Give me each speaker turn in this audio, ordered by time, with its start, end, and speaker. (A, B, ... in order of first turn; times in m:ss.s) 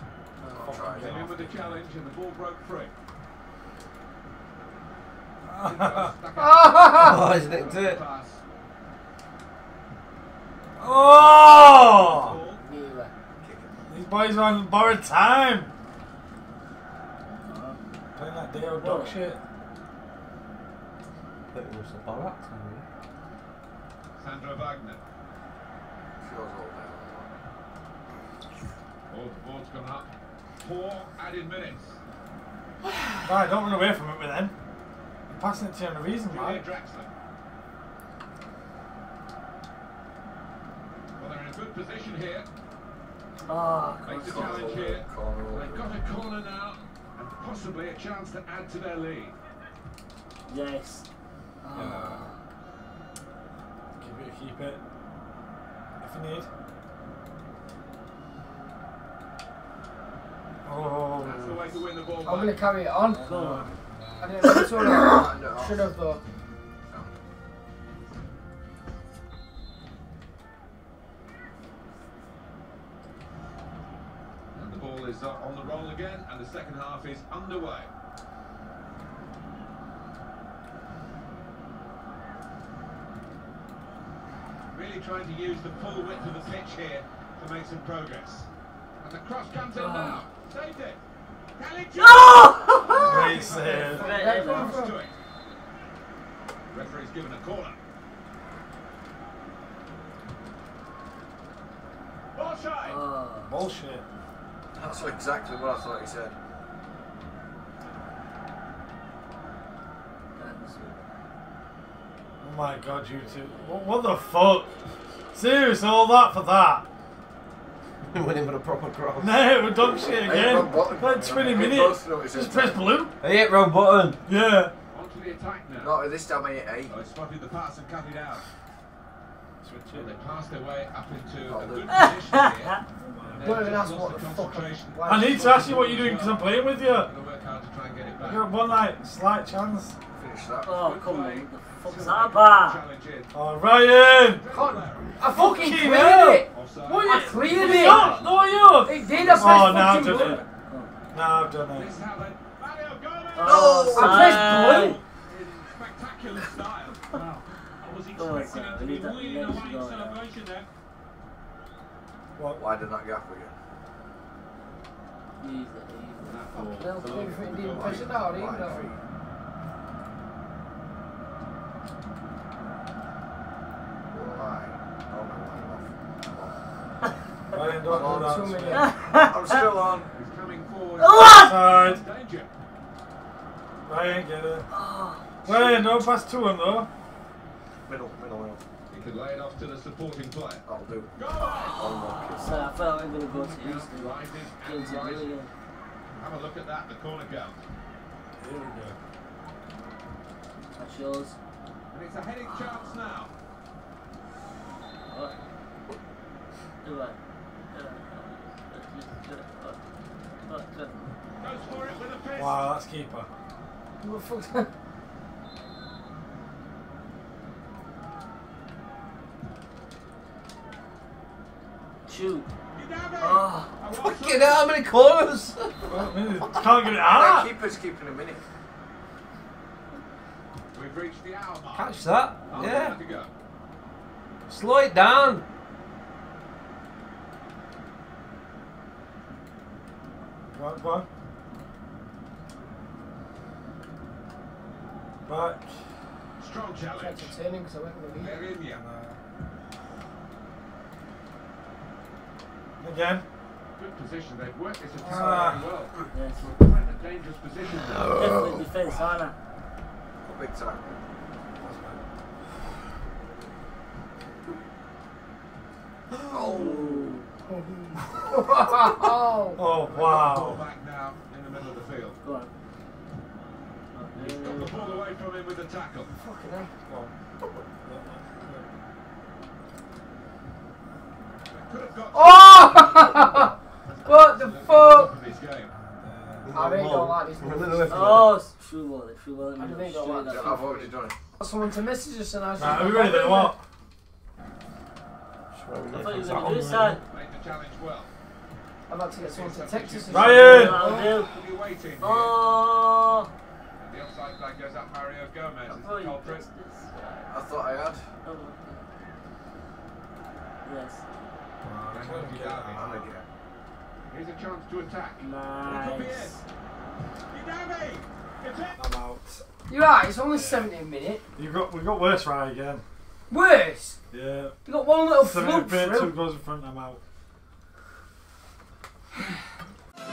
0:00.4-0:00.9 A
0:00.5-0:01.1 B
0:00.8-0:01.9 C
0:00.9-0:02.9 D
0:05.5-0:06.1 C
0:05.6-0:08.4 D
0:06.4-0:07.2 E
0:06.8-0:08.0 F
0:10.8-0:12.4 C
0:11.7-0:12.6 D
0:12.6-0:13.1 E
0:13.4-0:13.7 B
0:13.9-0:15.7 C
0:17.4-0:17.8 A
0:18.2-0:19.4 C
0:18.6-0:19.3 A
0:21.5-0:22.8 F
0:24.2-0:25.0 D
0:26.2-0:27.3 B
0:29.1-0:32.0 D
0:33.2-0:34.5 C
0:35.3-0:36.6 C
0:36.2-0:37.1 D
0:41.2-0:42.5 D
0:43.5-0:44.9 A
0:44.0-0:49.3 D
0:44.2-0:46.0 B
0:50.5-0:51.0 A
0:51.6-0:52.4 A
0:51.8-0:52.3 B
0:54.0-0:54.8 C
0:56.0-0:56.5 C
1:00.6-1:01.6 C
1:01.2-1:02.7 D
1:02.2-1:03.2 E
1:03.1-1:03.7 A
1:03.3-1:04.3 C
1:04.2-1:06.2 E
1:04.6-1:06.0 B
1:14.5-1:17.9 D
1:24.7-1:28.5 D
1:25.7-1:26.5 A
1:29.0-1:31.0 D
1:29.7-1:30.2 A
1:31.6-1:35.2 D
1:32.0-1:34.8 A
1:33.0-1:34.1 C
1:33.8-1:35.0 E
1:36.7-1:37.8 D
1:42.4-1:43.0 D
1:42.8-1:43.5 A
1:43.5-1:44.1 C
1:44.8-1:46.4 B
1:50.4-1:51.1 A
1:52.4-1:54.7 C
1:55.3-1:56.9 C
1:58.1-1:59.4 F
1:59.2-2:03.1 C
2:00.2-2:02.9 B
2:03.2-2:04.2 F
2:04.2-2:04.7 C
2:04.9-2:06.1 D
2:05.8-2:07.0 B
2:06.9-2:08.5 D
2:09.6-2:10.2 C
2:09.9-2:12.8 D
2:11.4-2:12.0 B
2:11.9-2:12.8 A
2:13.0-2:13.7 C
2:13.3-2:18.5 D
2:13.4-2:15.5 E
2:15.0-2:17.1 C
2:18.2-2:20.0 C
2:20.1-2:20.8 B
2:20.6-2:22.8 A
2:20.8-2:23.3 D
2:23.3-2:24.5 C
2:24.1-2:25.2 D
2:24.5-2:28.2 E
2:25.3-2:26.4 C
2:26.5-2:28.3 D
2:27.2-2:28.2 A
2:27.4-2:30.4 C
2:28.8-2:30.4 E
2:29.3-2:29.8 B
2:31.1-2:31.9 C
2:31.7-2:33.9 D
2:33.4-2:35.0 A
2:33.4-2:34.6 B
2:33.9-2:35.0 E
2:34.7-2:37.1 D
2:37.1-2:40.7 G
2:38.1-2:40.2 A
2:42.4-2:42.7 C
2:42.6-2:43.6 B
2:45.4-2:46.4 A
2:46.2-2:48.2 D
2:46.5-2:49.0 B
2:46.8-2:48.9 E
2:54.1-2:56.6 B
2:57.5-2:58.7 C
2:57.9-2:58.9 E
2:57.9-3:00.1 B
2:58.7-2:59.6 A
3:00.2-3:02.5 D
3:01.0-3:01.7 A
3:01.4-3:02.0 C
3:03.8-3:04.7 C
3:04.7-3:05.2 A
3:05.4-3:06.9 C
3:05.5-3:06.0 B
3:07.9-3:08.6 B
3:08.9-3:10.6 D
3:10.7-3:12.5 B
3:11.2-3:11.8 D
3:12.3-3:15.5 A
3:13.3-3:15.4 D
3:16.2-3:17.6 D
3:18.4-3:19.0 C
3:20.8-3:21.4 A
3:21.9-3:23.3 D
3:25.1-3:25.4 A
3:26.8-3:27.2 A
3:27.7-3:29.8 A
3:30.4-3:31.0 A
3:31.4-3:32.6 D
3:32.3-3:33.3 C
3:34.0-3:34.7 E
3:42.1-3:42.5 A
3:42.7-3:44.7 D
3:43.2-3:43.7 A
3:43.9-3:46.5 F
3:45.9-3:47.5 C
3:47.1-3:48.5 B
3:50.7-3:53.3 D
3:51.7-3:53.0 F
3:54.5-3:55.4 F
4:00.5-4:01.1 C
4:05.3-4:05.8 C
4:06.4-4:07.4 D
4:07.0-4:08.4 E
4:08.2-4:08.8 D
4:08.7-4:09.2 C
4:12.8-4:13.2 C
4:13.8-4:18.2 D
4:15.0-4:15.7 C
4:16.1-4:16.5 A
4:18.1-4:19.4 A
4:20.2-4:21.0 B
4:21.6-4:22.0 C
4:26.3-4:27.1 B
4:26.5-4:27.3 A
4:27.5-4:29.6 E
4:29.6-4:30.6 C
4:29.8-4:32.2 D
4:32.2-4:32.5 A
4:33.9-4:35.0 A
4:34.1-4:36.1 D
4:36.2-4:36.7 E
4:36.8-4:37.1 C
4:37.8-4:38.7 C
4:41.5-4:45.7 D
4:42.1-4:43.5 E
4:44.1-4:45.1 E
4:45.7-4:46.6 C
4:46.5-4:48.4 F
4:46.5-4:48.3 E
4:47.9-4:50.7 A
4:49.6-4:53.5 E
4:50.2-4:51.3 B
4:52.6-4:53.6 C
4:55.5-4:57.0 F
4:55.9-4:57.0 A
4:57.1-4:58.1 D
4:58.9-5:00.8 E
4:59.2-5:02.4 D
5:00.1-5:00.9 C
5:00.2-5:01.3 A
5:02.0-5:03.3 A
5:03.8-5:06.4 D
5:05.8-5:07.4 A
5:07.3-5:08.0 B
5:08.2-5:08.9 A
5:10.6-5:11.0 A
5:11.6-5:12.9 C
5:11.9-5:13.1 D
5:12.7-5:13.3 B
5:14.1-5:16.4 D
5:15.2-5:16.4 A
5:17.3-5:18.8 D
5:18.7-5:19.4 C
5:19.7-5:21.2 E
5:20.3-5:20.7 C
5:21.4-5:22.8 C
5:23.3-5:24.0 E
5:24.1-5:24.6 C
5:24.6-5:26.1 E
5:25.2-5:27.0 C